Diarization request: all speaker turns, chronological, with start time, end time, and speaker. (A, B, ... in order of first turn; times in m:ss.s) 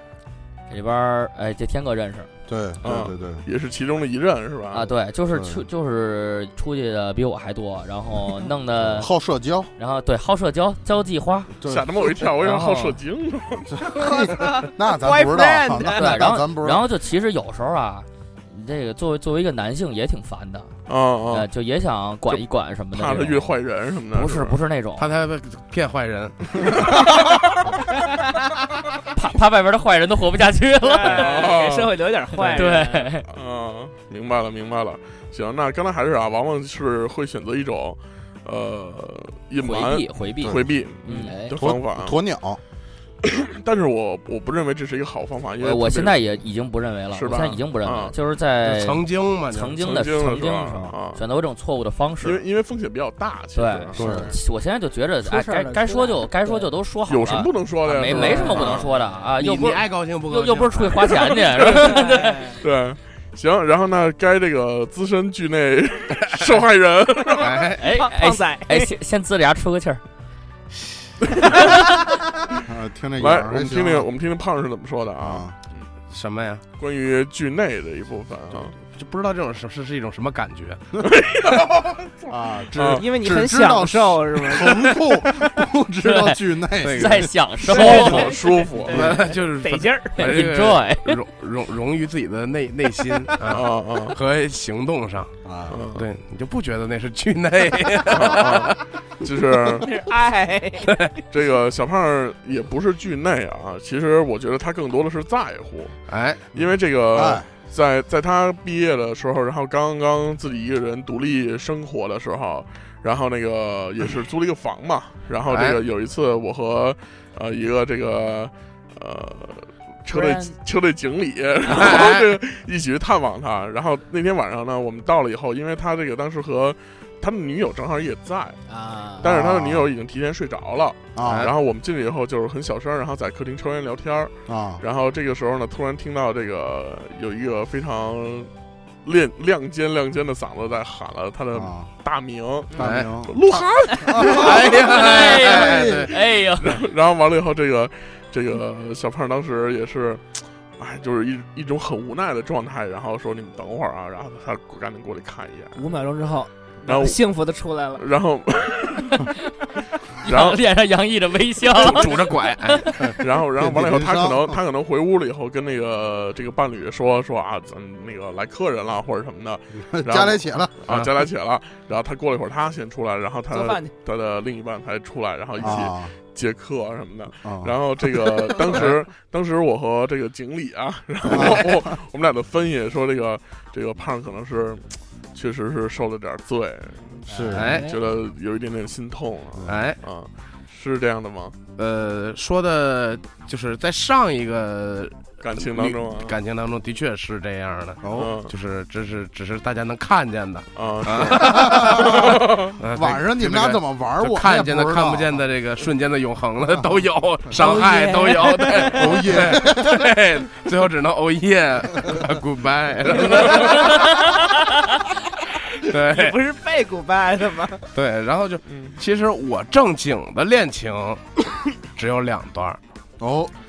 0:00.7-0:02.3 A
0:02.5-0:03.4 B
0:02.8-0:04.9 C
0:04.7-0:09.1 A
0:05.3-0:05.6 B
0:08.8-0:09.7 B
0:09.8-0:11.5 A
0:11.6-0:12.1 B
0:11.6-0:13.7 C
0:12.4-0:13.0 A
0:13.7-0:16.9 B
0:14.0-0:16.2 D
0:15.9-0:20.7 A
0:20.9-0:21.5 C
0:21.3-0:23.5 A
0:22.3-0:24.6 C
0:24.1-0:25.1 A
0:25.0-0:26.9 E
0:29.1-0:31.5 A
0:30.8-0:33.1 D
0:31.1-0:32.7 C
0:32.4-0:33.2 A
0:33.3-0:42.2 C
0:39.6-0:41.3 A
0:40.4-0:40.7 B
0:41.1-0:41.5 D
0:41.6-0:42.6 B
0:43.2-0:46.2 C
0:45.6-0:52.4 A
0:47.1-0:48.1 C
0:48.6-0:49.8 E
0:49.8-0:51.2 C
0:52.2-0:54.0 C
0:53.5-1:02.6 A
0:54.0-0:54.3 B
0:55.2-0:56.7 D
0:57.1-0:58.9 C
0:58.0-0:59.1 D
0:59.4-1:01.3 E
1:01.6-1:02.6 D
1:01.6-1:07.6 C
1:07.4-1:07.9 E
1:07.8-1:10.0 A
1:07.9-1:08.9 D
1:12.6-1:14.1 B
1:13.2-1:15.9 C
1:15.2-1:15.5 B
1:16.1-1:16.6 E
1:16.8-1:18.7 C
1:18.8-1:20.8 E
1:21.0-1:23.0 C
1:22.3-1:27.3 B
1:23.0-1:25.0 D
1:26.0-1:28.3 A
1:26.8-1:27.3 E
1:27.6-1:30.3 D
1:27.6-1:29.1 C
1:28.9-1:35.3 E
1:30.2-1:31.2 A
1:33.5-1:34.2 C
1:35.4-1:35.8 B
1:35.7-1:36.0 C
1:35.9-1:38.8 E
1:38.1-1:39.9 C
1:39.8-1:41.1 D
1:40.8-1:41.1 E
1:41.3-1:46.0 C
1:46.1-1:46.5 E
1:46.5-2:08.6 C
1:46.6-1:47.5 B
1:55.5-1:55.8 E
2:00.1-2:00.5 D
2:01.7-2:02.4 E
2:08.7-2:09.3 D
2:09.2-2:18.5 C
2:09.2-2:09.9 B
2:11.2-2:11.5 B
2:11.2-2:11.5 E
2:14.5-2:14.8 B
2:19.0-2:24.7 C
2:21.5-2:21.9 B
2:22.8-2:23.4 B
2:22.8-2:23.1 E
2:24.0-2:24.8 B
2:24.3-2:26.1 E
2:24.8-2:26.8 A
2:25.5-2:26.1 B
2:26.6-2:35.8 C
2:35.8-2:38.0 D
2:36.9-2:37.2 C
2:38.0-2:39.3 C
2:40.2-2:43.1 A
2:40.2-2:40.6 C
2:41.8-2:43.1 E
2:41.8-2:42.1 C
2:43.2-3:11.6 C
2:43.6-2:44.6 B
2:49.9-2:50.8 B
2:53.5-2:53.9 D
2:55.6-2:56.1 B
2:57.4-2:57.7 B
3:01.3-3:01.9 B
3:07.3-3:08.0 D
3:07.3-3:07.7 B
3:07.5-3:07.9 E
3:09.6-3:10.0 E
3:11.8-3:34.0 E
3:15.4-3:16.3 C
3:18.0-3:18.3 B
3:18.1-3:18.5 C
3:20.8-3:22.8 C
3:21.6-3:22.4 B
3:22.9-3:25.4 B
3:27.5-3:29.2 D
3:28.9-3:30.1 B
3:33.6-3:34.4 D
3:35.8-3:36.4 E
3:36.0-3:37.8 D
3:37.9-3:41.2 E
3:38.7-3:38.9 C
3:41.9-3:42.8 E
3:43.2-3:43.5 B